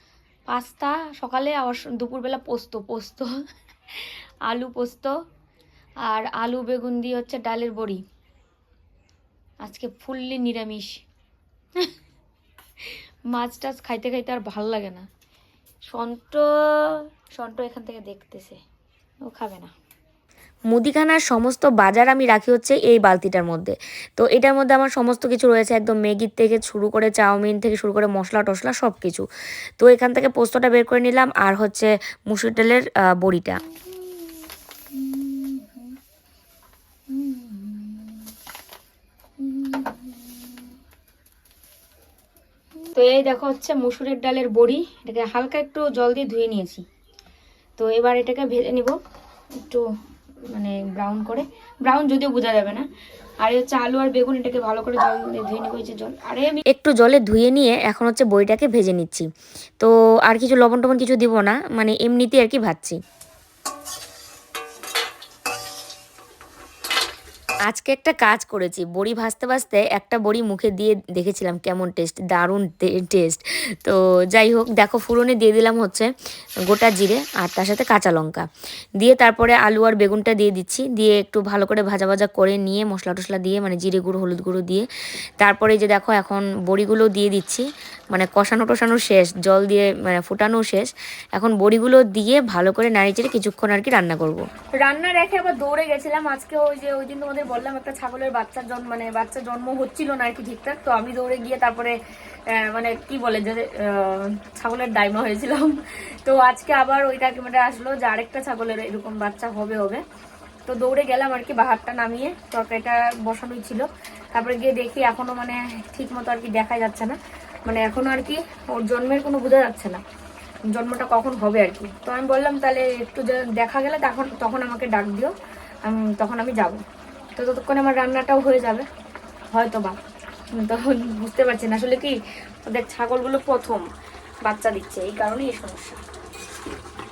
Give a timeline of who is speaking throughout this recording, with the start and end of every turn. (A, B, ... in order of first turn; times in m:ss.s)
0:00.5-0:03.3 A
0:03.9-0:05.1 A
0:06.0-0:08.0 A
0:09.6-0:11.0 A
0:12.8-0:15.1 A
0:15.8-0:18.6 A
0:19.2-0:19.7 A
0:20.7-0:29.3 A
0:29.8-0:33.8 A
0:34.9-0:35.9 A
0:37.1-0:38.3 A
0:39.4-0:40.3 A
0:42.9-0:46.8 A
0:47.8-0:49.0 A
0:50.5-0:52.8 A
0:53.4-0:59.3 A
0:59.8-1:03.0 A
1:07.6-1:16.1 A
1:16.7-1:18.5 A
1:19.0-1:24.8 A
1:25.4-1:42.0 A
1:42.5-1:50.0 A
1:50.7-2:00.0 A
2:00.7-2:05.3 A
2:05.8-2:06.8 A
2:07.4-2:08.9 A
2:09.5-2:10.0 A
2:10.5-2:13.8 A
2:14.4-2:16.0 A